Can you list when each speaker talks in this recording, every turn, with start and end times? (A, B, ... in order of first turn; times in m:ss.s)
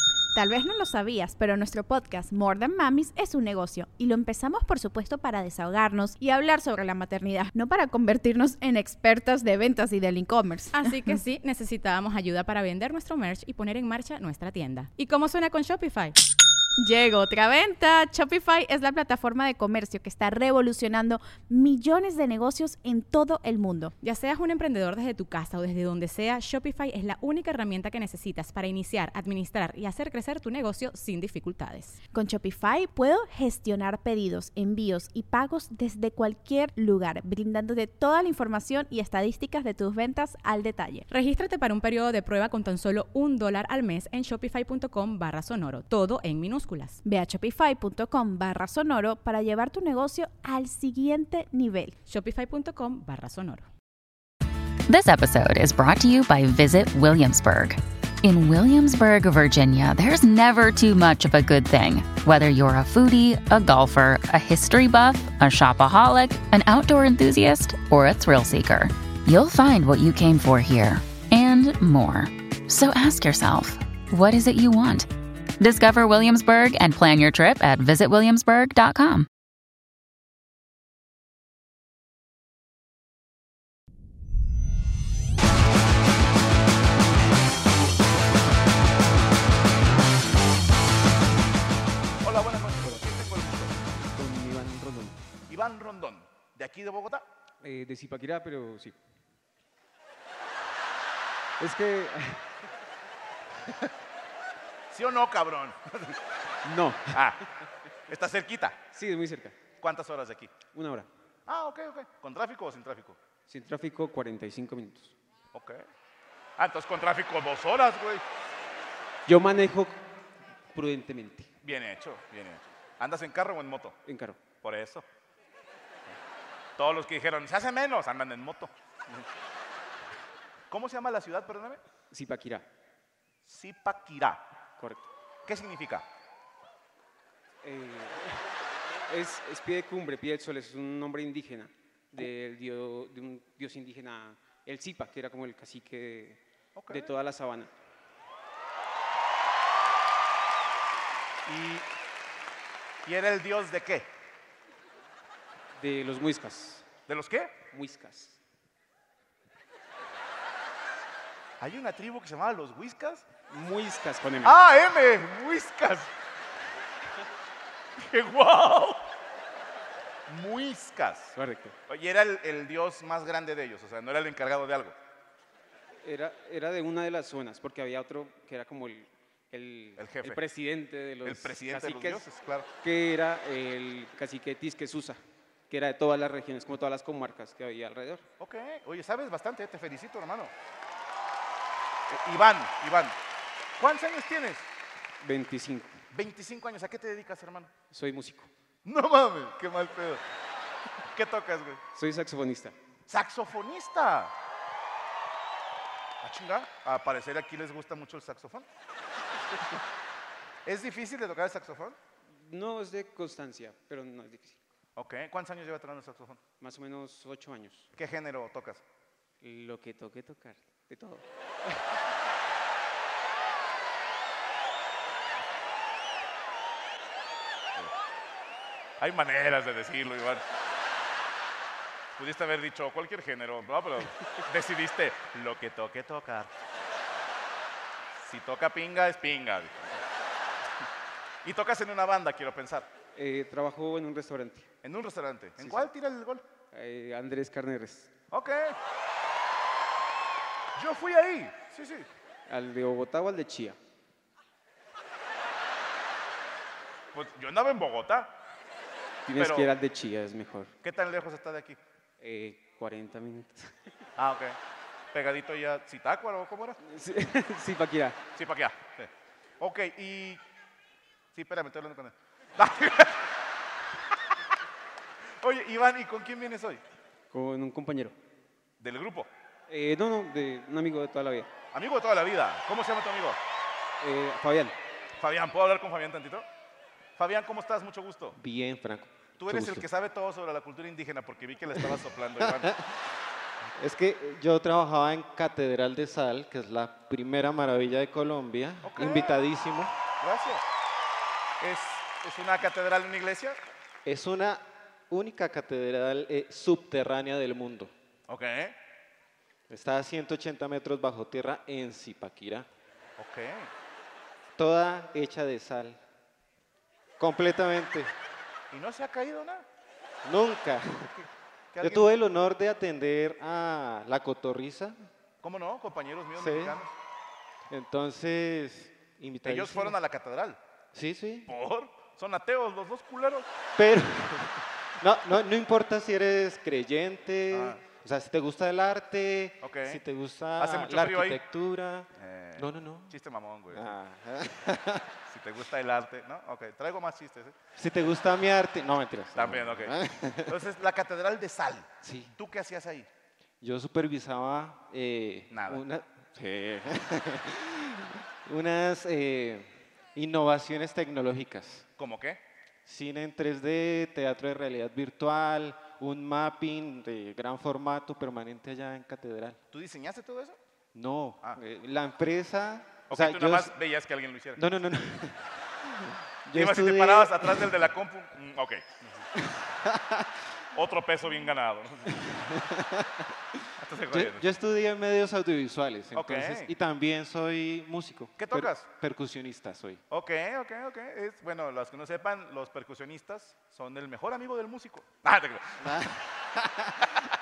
0:00.3-0:10.9 A
0:10.7-0:16.1 B
0:16.8-0:23.9 A
0:24.0-0:32.0 B
0:32.1-0:41.0 A
0:41.1-0:47.0 B
0:47.0-0:51.9 A
0:52.1-0:53.7 B
0:54.9-1:19.3 C
1:32.2-1:33.8 D
1:32.8-1:33.1 E
1:34.0-1:35.2 E
1:35.5-1:37.3 D
1:37.6-1:39.0 E
1:41.6-1:42.6 E
1:44.9-1:46.2 D
1:46.6-1:47.2 E
1:47.1-1:47.4 D
1:48.1-1:48.8 D
1:48.9-1:49.6 E
1:49.8-1:50.6 D
1:50.7-1:51.1 E
1:51.5-1:53.2 D
1:53.5-1:55.1 E
1:55.5-1:55.8 D
1:56.6-1:58.2 D
1:59.2-2:00.0 E
2:00.7-2:01.5 E
2:01.6-2:04.0 D
2:04.0-2:04.4 E
2:04.6-2:05.0 D
2:06.8-2:09.1 D
2:10.7-2:11.8 D
2:12.1-2:12.7 E
2:13.4-2:14.5 D
2:14.8-2:15.1 E
2:15.4-2:16.0 D
2:17.6-2:18.5 E
2:19.1-2:27.7 E
2:26.7-2:27.1 D
2:31.4-2:31.9 D
2:33.0-2:34.1 D
2:35.8-2:36.9 E
2:37.1-2:37.6 D
2:37.7-2:38.4 E
2:41.6-2:43.3 D
2:43.5-2:44.5 E
2:44.4-2:46.1 D
2:48.0-2:49.1 D
2:50.3-2:51.4 D
2:51.4-2:51.8 E
2:51.9-2:55.0 D
2:56.0-3:02.2 E
3:00.0-3:00.4 D
3:01.2-3:02.7 D
3:02.8-3:08.2 E
3:08.4-3:10.5 D
3:12.1-3:13.2 D
3:13.8-3:14.7 D
3:15.2-3:16.0 E
3:16.1-3:17.7 D
3:17.9-3:18.5 E
3:18.8-3:20.2 D
3:21.1-3:21.8 D
3:21.9-3:22.8 E
3:23.1-3:24.3 D
3:26.2-3:28.6 D
3:30.6-3:32.0 D
3:32.3-3:34.6 E
3:35.0-3:36.4 D
3:36.6-3:37.9 E
3:38.0-3:38.8 D
3:39.4-3:41.8 E
3:49.0-3:50.4 D
3:52.2-3:56.5 D
3:58.1-4:00.0 D
4:01.4-4:02.9 D
4:03.1-4:04.7 E
4:04.8-4:06.4 D
4:05.6-4:05.9 E
4:06.7-4:08.1 E
4:08.3-4:08.8 D
4:10.7-4:12.1 D
4:12.5-4:13.8 E
4:17.1-4:18.4 D
4:19.2-4:20.7 E
4:19.3-4:19.7 D
4:20.8-4:21.8 D
4:22.2-4:23.7 E
4:24.2-4:24.6 D
4:25.1-4:26.8 D
4:26.8-4:28.2 E
4:28.3-4:30.4 D
4:31.3-4:33.4 D
4:35.4-4:36.8 D
4:37.3-4:38.2 E
4:38.8-4:39.3 D
4:39.7-4:41.5 E
4:41.7-4:43.4 D
4:44.0-4:44.8 E
4:45.2-4:46.5 D
4:47.2-4:48.4 D
4:48.4-4:48.8 E
4:48.6-4:49.8 F
4:49.4-4:52.7 D
4:52.4-4:52.8 F
4:53.8-4:59.9 F
4:58.8-4:59.4 D
5:00.2-5:00.6 D
5:01.6-5:03.6 D
5:04.0-5:07.9 F
5:08.3-5:08.8 D
5:09.7-5:12.7 F
5:13.2-5:13.7 D
5:14.6-5:16.0 F
5:17.2-5:18.1 F
5:18.7-5:19.6 D
5:20.2-5:21.3 F
5:21.7-5:22.1 D
5:21.8-5:25.0 F
5:25.4-5:26.9 D
5:26.4-5:26.8 F
5:27.7-5:30.0 F
5:29.4-5:30.6 D
5:30.9-5:31.5 F
5:31.4-5:33.5 D
5:33.8-5:43.1 F
5:37.5-5:37.8 D
5:39.6-5:40.0 D
5:40.6-5:41.4 D
5:42.1-5:44.0 D
5:43.7-5:45.1 F
5:45.3-5:47.6 D
5:47.8-5:50.6 F
5:49.3-5:53.1 D
5:52.0-5:52.3 F
5:53.6-6:01.8 F
5:55.5-5:55.8 D
6:02.0-6:02.4 D
6:02.8-6:09.6 F
6:09.7-6:10.6 D
6:10.9-6:13.7 F
6:13.1-6:14.6 D
6:14.6-6:17.8 F
6:16.5-6:19.3 D
6:19.4-6:20.3 F
6:20.7-6:22.2 D
6:22.1-6:30.0 F
6:23.8-6:24.5 D
6:26.1-6:26.7 D
6:28.4-6:28.9 D
6:30.1-6:36.0 D
6:35.8-6:37.1 F